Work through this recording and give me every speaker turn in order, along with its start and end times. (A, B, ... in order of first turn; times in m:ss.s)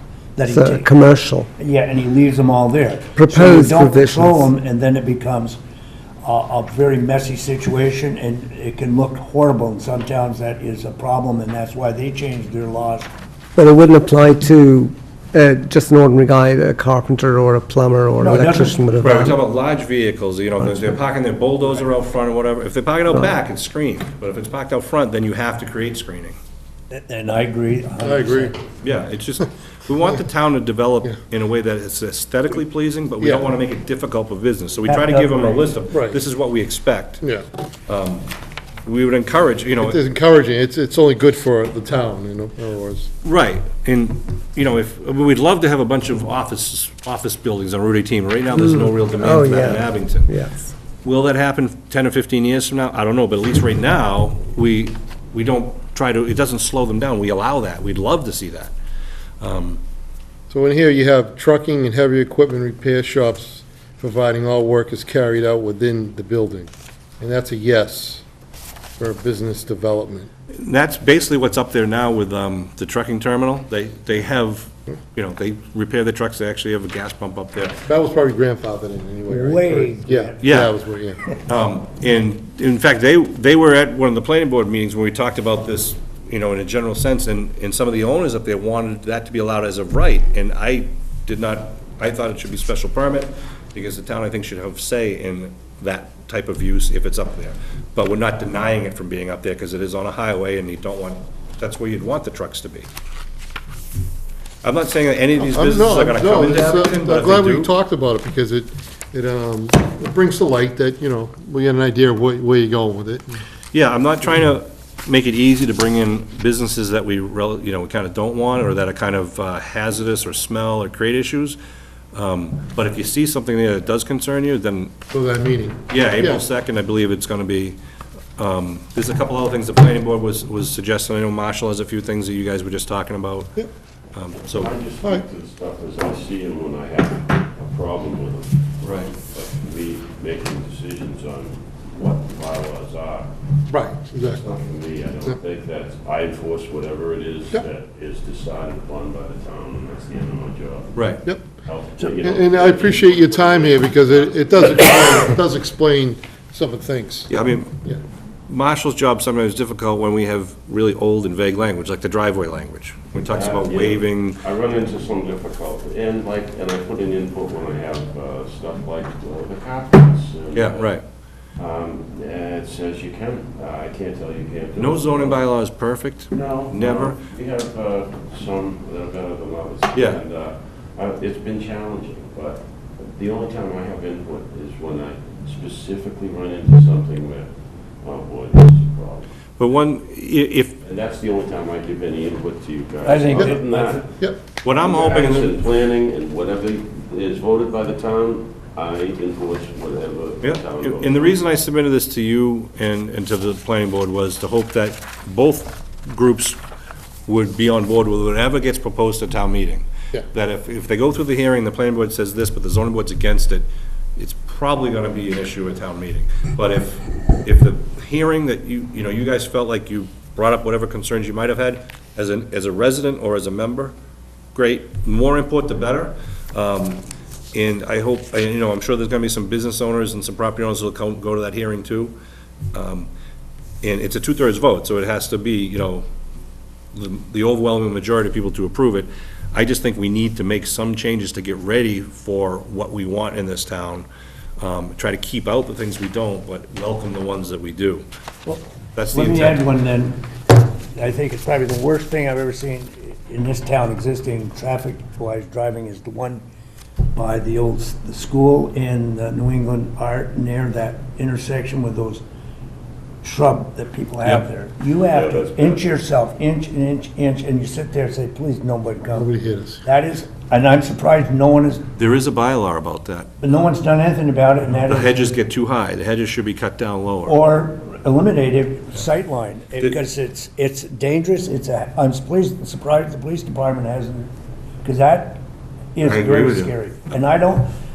0:00.4-0:00.9 A
0:00.5-0:01.5 B
0:01.6-0:05.6 A
0:03.2-0:04.5 B
0:06.2-0:13.1 A
0:13.6-0:19.4 B
0:18.2-0:18.8 A
0:19.0-0:26.4 C
0:26.9-0:28.6 A
0:28.0-0:28.6 D
0:28.8-0:37.2 C
0:33.2-0:33.5 D
0:34.9-0:35.8 A
0:35.9-0:36.2 D
0:37.9-0:38.3 C
0:38.8-0:40.0 C
0:39.8-0:43.1 D
0:43.2-0:50.3 C
0:48.6-0:50.7 B
0:51.0-0:58.7 C
0:59.4-0:59.8 C
1:00.5-1:08.2 D
1:09.0-1:10.3 D
1:10.5-1:17.8 C
1:17.9-1:21.2 D
1:19.3-1:20.6 A
1:20.4-1:20.7 C
1:21.3-1:42.9 C
1:44.6-1:47.7 C
1:45.4-1:53.4 D
1:53.7-2:01.6 C
2:02.1-2:05.0 C
2:05.1-2:06.4 D
2:05.9-2:07.8 C
2:08.4-2:13.5 C
2:14.1-2:14.7 C
2:14.5-2:23.3 E
2:18.8-2:19.1 C
2:23.7-2:24.5 D
2:24.2-2:35.2 E
2:31.0-2:31.2 C
2:32.0-2:37.3 D
2:37.3-2:37.8 C
2:38.5-2:44.4 C
2:43.3-2:51.0 E
2:50.5-2:51.0 C
2:51.6-2:55.6 E
2:54.8-2:57.2 C
2:56.3-3:09.3 E
2:59.9-3:00.2 C
3:09.6-3:10.8 C
3:10.8-3:14.2 E
3:13.0-3:14.0 A
3:14.6-3:15.6 C
3:14.8-3:21.4 E
3:20.4-3:26.6 C
3:27.3-3:44.0 C
3:44.5-3:52.2 C
3:52.7-3:53.1 C
3:53.8-3:56.0 C
3:56.9-4:04.1 C
4:04.6-4:08.1 C
4:08.5-4:10.3 A
4:09.0-4:09.6 C
4:10.8-4:16.4 A
4:17.1-4:22.2 A
4:23.2-4:29.3 A
4:25.0-4:25.8 E
4:29.1-4:29.8 D
4:29.8-4:31.9 A
4:32.0-4:33.3 C
4:33.4-4:35.3 A
4:34.7-4:37.4 C
4:37.2-4:45.4 A
4:46.0-4:47.7 A
4:46.0-4:46.7 C